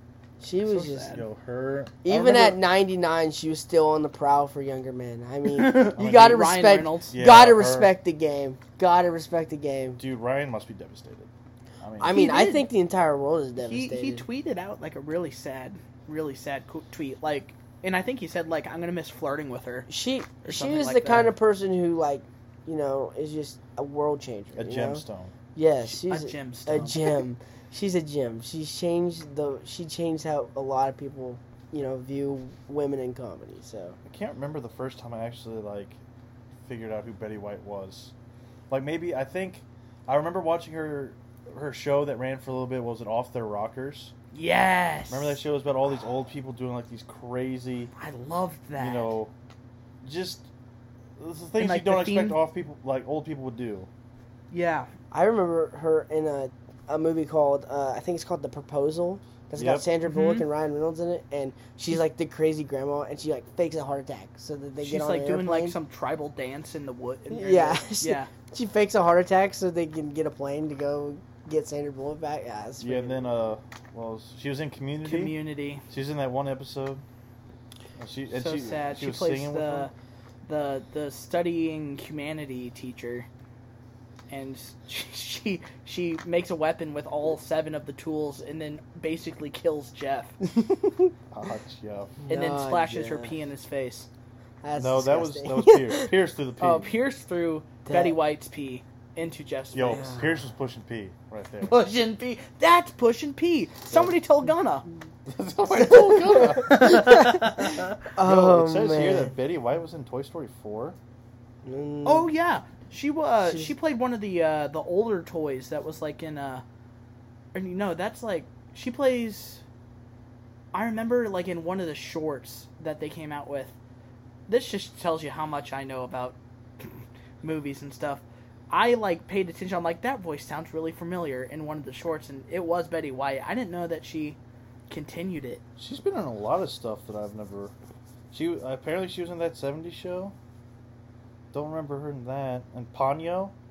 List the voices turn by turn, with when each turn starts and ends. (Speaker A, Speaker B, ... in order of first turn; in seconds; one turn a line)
Speaker A: 0.4-1.1
Speaker B: 0.7-1.2
Speaker C: 1.1-2.5
Speaker A: 2.0-10.0
Speaker B: 5.5-7.1
Speaker C: 6.0-6.5
Speaker C: 7.1-7.9
Speaker C: 10.0-11.3
Speaker C: 11.8-12.2
Speaker A: 12.0-14.2
Speaker B: 12.1-12.6
Speaker B: 13.6-19.9
Speaker A: 19.9-25.0
Speaker B: 20.4-21.3
Speaker C: 24.5-25.3
Speaker A: 25.5-34.0
Speaker B: 25.9-27.2
Speaker C: 34.0-36.0
Speaker C: 36.6-38.1
Speaker C: 38.7-44.1
Speaker B: 44.3-45.4
Speaker C: 45.1-47.9
Speaker B: 48.0-49.1
Speaker C: 48.8-49.3
Speaker C: 50.0-50.5
Speaker C: 51.2-53.9
Speaker B: 51.6-52.4
Speaker B: 54.5-54.9
Speaker A: 55.1-65.8
Speaker C: 59.6-59.9
Speaker B: 60.1-60.4
Speaker B: 64.8-68.3
Speaker A: 67.3-73.3
Speaker C: 72.8-77.0
Speaker B: 75.0-75.8
Speaker C: 78.0-79.9
Speaker B: 78.3-79.9
Speaker B: 80.4-83.3
Speaker B: 84.3-90.3
Speaker A: 90.7-91.1
Speaker C: 91.3-92.2
Speaker A: 92.2-93.3
Speaker B: 92.3-94.1
Speaker A: 94.6-96.1
Speaker C: 94.8-96.9
Speaker B: 96.6-100.2
Speaker A: 97.8-98.2
Speaker C: 99.7-101.7
Speaker A: 99.9-100.2
Speaker B: 101.6-104.9
Speaker C: 105.3-111.0
Speaker A: 105.9-107.5
Speaker B: 106.0-107.8
Speaker A: 108.1-109.3
Speaker A: 111.6-112.3
Speaker B: 112.0-116.6
Speaker A: 113.4-113.7
Speaker B: 117.5-119.6
Speaker B: 120.7-123.7
Speaker B: 124.5-134.4
Speaker B: 134.9-135.6
Speaker C: 135.8-137.7
Speaker C: 138.3-140.3
Speaker C: 141.5-143.5